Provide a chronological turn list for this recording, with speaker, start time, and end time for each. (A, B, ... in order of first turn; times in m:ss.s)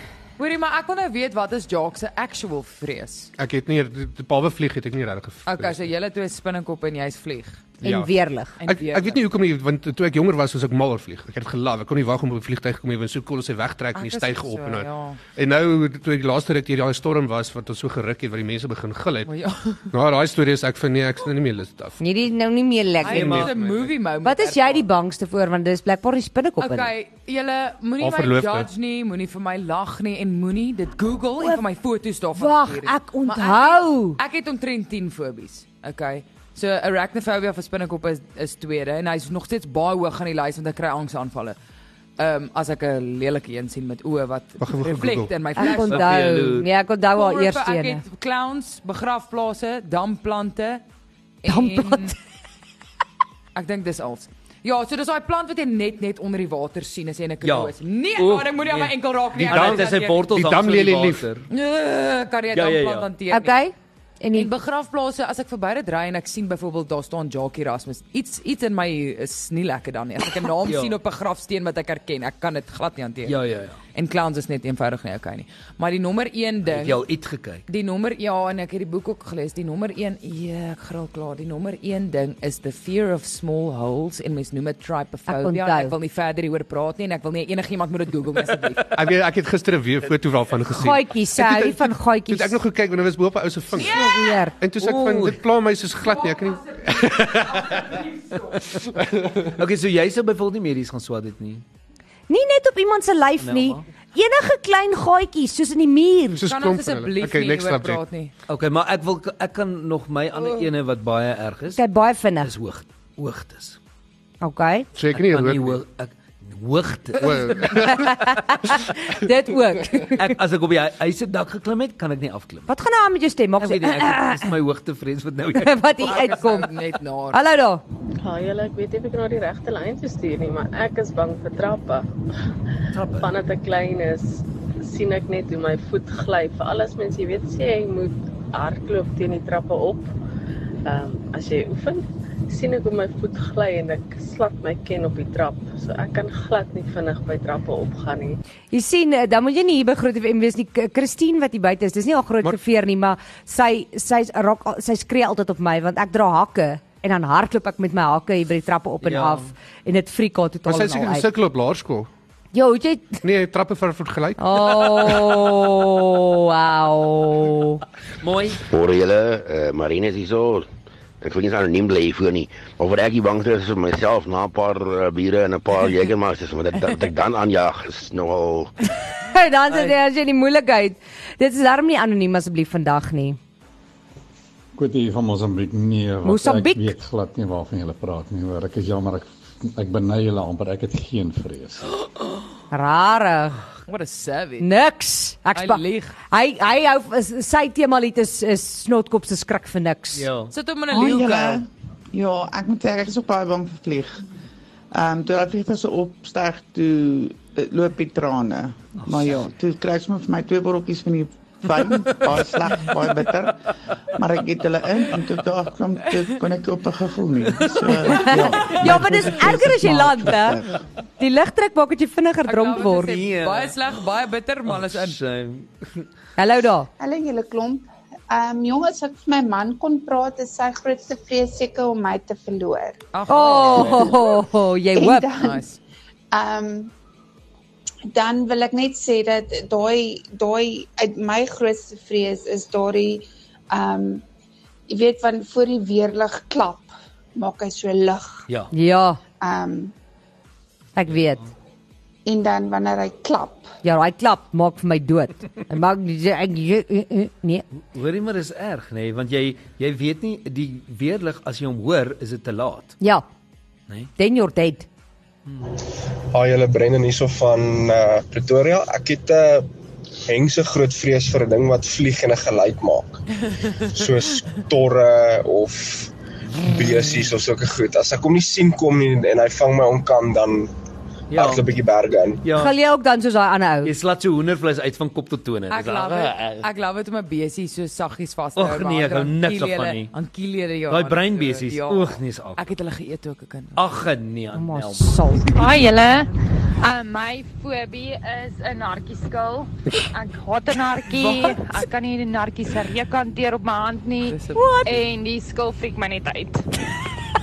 0:00.4-0:03.3 A
0:03.4-0:05.8 B
0:05.4-0:07.7 A
0:07.8-0:08.1 B
0:07.8-0:08.5 C
0:08.6-0:09.2 A
0:08.7-0:19.3 B
0:13.9-0:15.2 A
0:19.2-0:19.9 A
0:19.9-0:22.0 B
0:22.0-0:23.5 C
0:23.0-0:24.8 A
0:23.1-0:23.8 B
0:23.1-0:23.5 D
0:24.2-0:26.9 C
0:26.6-0:41.6 A
0:28.0-0:28.7 B
0:32.4-0:34.2 C
0:42.2-0:46.2 A
0:44.6-0:45.3 B
0:45.6-0:48.0 C
0:45.7-0:46.7 D
0:47.1-0:50.8 A
0:51.4-0:52.1 A
0:51.5-0:52.1 C
0:53.5-1:00.2 A
0:57.4-1:01.5 D
0:59.4-1:01.2 B
1:01.5-1:03.6 A
1:02.5-1:03.1 D
1:03.3-1:04.5 C
1:04.3-1:13.4 A
1:10.6-1:11.0 D
1:13.2-1:13.8 D
1:13.9-1:17.0 A
1:16.6-1:17.6 D
1:17.7-1:28.9 A
1:25.3-1:25.9 C
1:28.9-1:34.0 B
1:30.8-1:32.6 C
1:33.8-1:34.4 A
1:33.8-1:34.5 C
1:34.6-1:37.9 B
1:34.8-1:35.4 D
1:36.0-1:38.8 A
1:39.2-1:39.4 B
1:39.5-1:41.6 D
1:42.3-1:46.5 C
1:43.4-1:43.8 D
1:46.4-1:48.0 B
1:46.4-1:48.3 A
1:48.5-1:51.8 D
1:51.8-1:52.5 C
1:52.4-1:53.8 D
1:54.4-1:54.9 C
1:55.0-1:55.8 B
1:55.1-1:57.9 D
1:57.2-1:58.2 B
1:57.8-2:00.4 C
2:00.1-2:02.7 D
2:02.7-2:04.5 C
2:03.6-2:05.9 D
2:05.5-2:06.7 C
2:06.0-2:07.4 A
2:07.3-2:07.8 C
2:08.2-2:12.1 E
2:12.9-2:13.3 D
2:13.1-2:20.1 E
2:20.8-2:28.4 E
2:28.7-2:41.3 C
2:39.0-2:39.5 D
2:40.6-2:42.1 B
2:42.5-2:43.2 C
2:43.2-2:45.2 B
2:44.4-2:47.8 C
2:48.2-2:48.6 D
2:48.7-2:50.7 F
2:51.2-2:58.7 F
2:59.3-3:03.4 C
3:04.8-3:11.8 G
3:06.2-3:06.9 C
3:12.7-3:13.6 C
3:13.9-3:14.7 A
3:14.6-3:20.3 C
3:15.5-3:16.1 A
3:20.1-3:20.5 D
3:20.5-3:21.6 A
3:20.9-3:24.2 H
3:24.9-3:33.5 H
3:29.0-3:29.5 D
3:34.2-3:40.7 H
3:37.5-3:39.6 D
3:38.1-3:40.6 C
3:41.2-3:43.2 C
3:42.4-3:45.2 A
3:42.8-3:44.0 D
3:44.6-3:46.1 D
3:46.4-3:46.9 C
3:47.0-3:53.0 I
3:53.1-3:54.1 A
3:53.3-3:55.3 C
3:53.5-3:54.1 D
3:53.9-3:54.3 I
3:54.9-3:55.6 I
3:55.4-3:55.8 A
3:56.3-3:56.9 I
3:58.1-4:04.2 I
4:04.9-4:08.4 I
4:08.7-4:09.2 C
4:09.4-4:09.9 I
4:11.0-4:11.4 C
4:12.2-4:13.7 I
4:13.8-4:17.6 C
4:17.9-4:23.0 D
4:24.2-4:24.9 C
4:26.3-4:29.7 J
4:30.3-4:33.2 J
4:33.9-4:36.1 J
4:36.6-4:40.7 J
4:41.3-4:41.7 D
4:41.3-4:42.4 J
4:42.4-4:42.8 D
4:42.6-4:43.9 C
4:43.8-4:46.6 D
4:45.7-4:53.8 A
4:48.6-4:50.1 D
4:50.9-4:52.6 D
4:53.7-4:55.3 D
4:54.5-4:55.6 C
4:55.5-4:56.3 K
4:56.8-5:06.6 K
5:01.1-5:01.6 A
5:04.3-5:04.9 A
5:04.5-5:04.9 C